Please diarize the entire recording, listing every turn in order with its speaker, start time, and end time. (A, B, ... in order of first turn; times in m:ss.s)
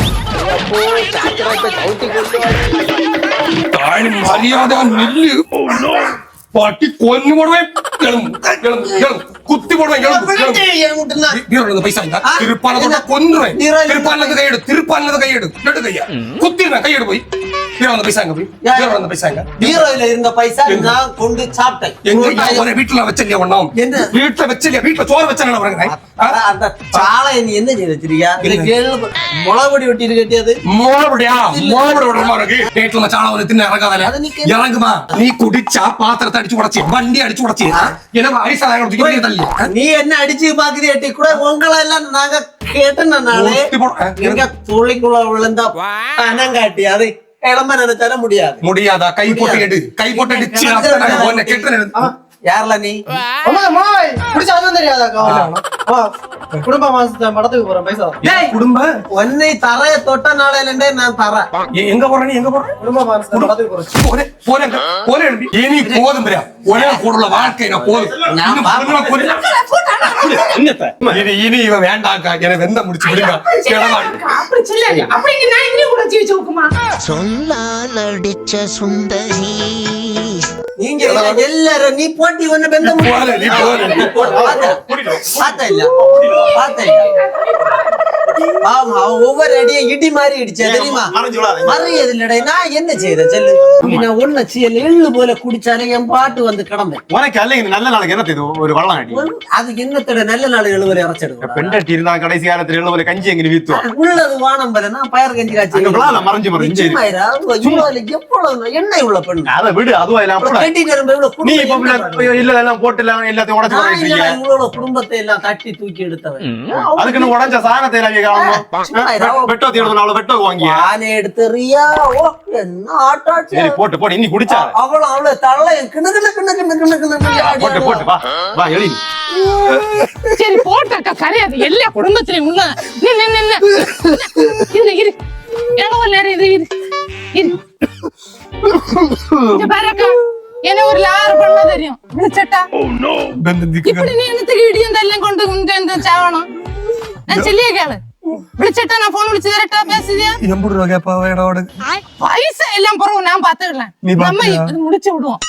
0:00.4-0:02.8 A
0:03.7-0:05.4 B
0:06.5-0:10.6 B
0:10.0-0:11.4 A
0:11.3-0:17.2 B
0:12.2-0:14.4 A
0:17.8-0:19.8 B
0:18.6-0:19.0 A
0:19.6-0:22.7 A
0:20.7-0:21.0 B
0:22.0-0:26.4 B
0:23.8-0:24.1 A
0:25.9-0:30.6 A
0:28.4-0:28.7 B
0:30.7-0:39.7 B
0:31.4-0:32.6 A
0:34.0-0:34.6 A
0:39.0-0:43.7 A
0:43.3-0:44.4 B
0:44.2-0:48.6 A
0:48.6-0:52.1 B
0:49.2-0:51.7 A
0:52.5-0:53.0 A
0:53.5-0:55.3 C
0:55.3-0:55.6 B
0:56.7-0:58.2 C
0:58.2-0:58.5 A
0:58.2-0:58.9 B
0:59.1-1:01.5 A
1:01.7-1:02.7 B
1:02.9-1:03.8 C
1:03.3-1:09.3 B
1:05.8-1:06.1 A
1:06.7-1:07.5 A
1:08.2-1:09.2 A
1:09.2-1:10.6 D
1:10.3-1:11.3 E
1:11.1-1:14.2 B
1:13.0-1:16.7 D
1:17.0-1:20.4 F
1:20.8-1:24.8 A
1:21.0-1:21.4 B
1:22.8-1:24.0 B
1:23.5-1:24.3 D
1:23.8-1:26.5 E
1:25.4-1:25.9 A
1:26.3-1:28.0 D
1:26.5-1:27.1 A
1:28.6-1:31.1 A
1:30.6-1:32.0 E
1:31.6-1:37.0 A
1:33.8-1:34.1 E
1:37.1-1:39.3 E
1:39.1-1:41.8 A
1:41.4-1:43.8 E
1:43.7-1:49.5 A
1:45.7-1:47.0 E
1:49.5-1:50.7 E
1:50.4-1:52.3 A
1:51.4-1:54.4 E
1:53.7-1:57.4 A
1:57.0-2:00.8 E
1:58.3-1:59.9 A
2:00.6-2:03.8 A
2:03.5-2:04.7 E
2:04.5-2:08.1 A
2:07.4-2:09.0 E
2:09.6-2:10.1 B
2:10.3-2:15.2 D
2:15.7-2:16.7 D
2:17.3-2:17.6 D
2:19.5-2:22.7 D
2:23.3-2:24.2 B
2:23.8-2:26.5 D
2:27.3-2:28.0 D
2:28.6-2:30.4 D
2:30.4-2:31.7 B
2:31.9-2:35.4 D
2:34.0-2:34.7 B